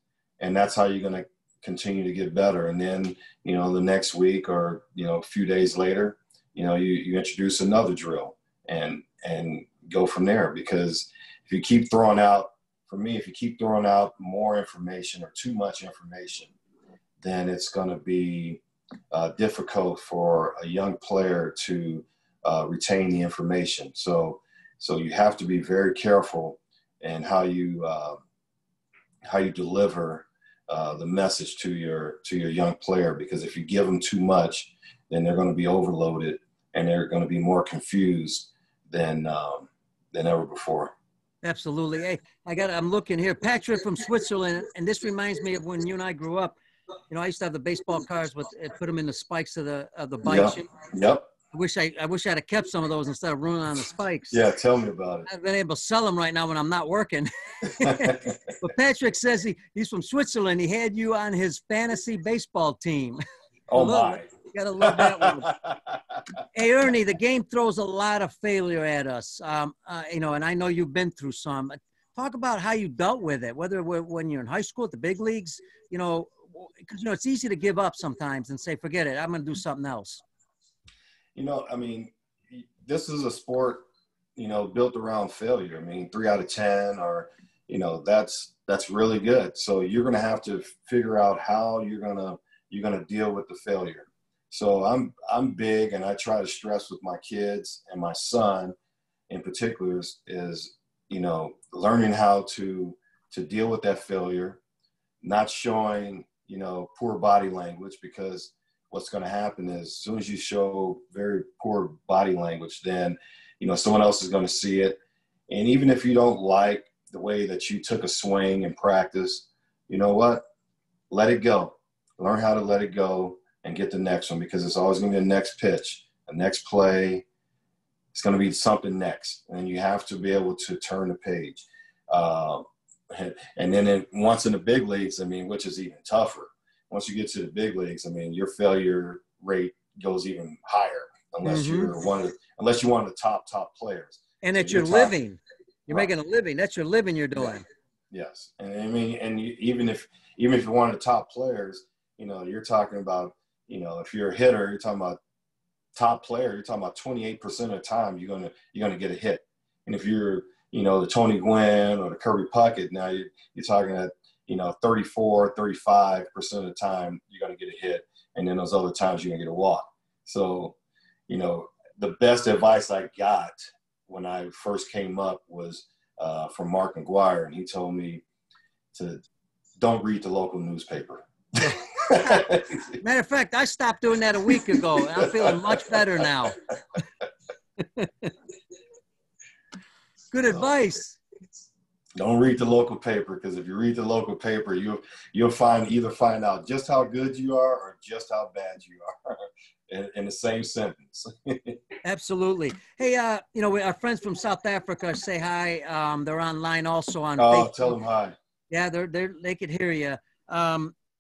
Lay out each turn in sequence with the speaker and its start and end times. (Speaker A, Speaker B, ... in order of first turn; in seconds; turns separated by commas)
Speaker A: 0.4-16.5, Speaker A: 17.2-28.2, Speaker A: 29.3-40.9, Speaker B: 41.4-46.6, Speaker B: 47.1-50.7, Speaker A: 50.2-51.3, Speaker B: 51.5-54.4, Speaker A: 54.3-55.3, Speaker B: 55.3-63.2, Speaker A: 57.8-58.4, Speaker A: 63.7-64.3, Speaker B: 63.7-65.5, Speaker A: 64.8-66.2, Speaker B: 66.5-80.2, Speaker A: 81.3-83.8, Speaker A: 84.4-98.8, Speaker A: 99.3-104.6, Speaker A: 105.2-115.0, Speaker A: 115.5-120.4, Speaker A: 121.1-127.2, Speaker A: 128.1-145.1, Speaker B: 141.4-141.9, Speaker B: 144.4-147.7, Speaker A: 148.1-155.2, Speaker A: 155.9-170.8, Speaker A: 171.3-178.2, Speaker A: 178.9-179.2, Speaker A: 179.8-183.0, Speaker B: 181.7-186.6, Speaker A: 184.8-186.2, Speaker B: 187.8-188.3, Speaker B: 190.3-191.2, Speaker A: 192.2-201.8, Speaker B: 202.0-207.9, Speaker A: 207.4-208.3, Speaker B: 208.7-210.9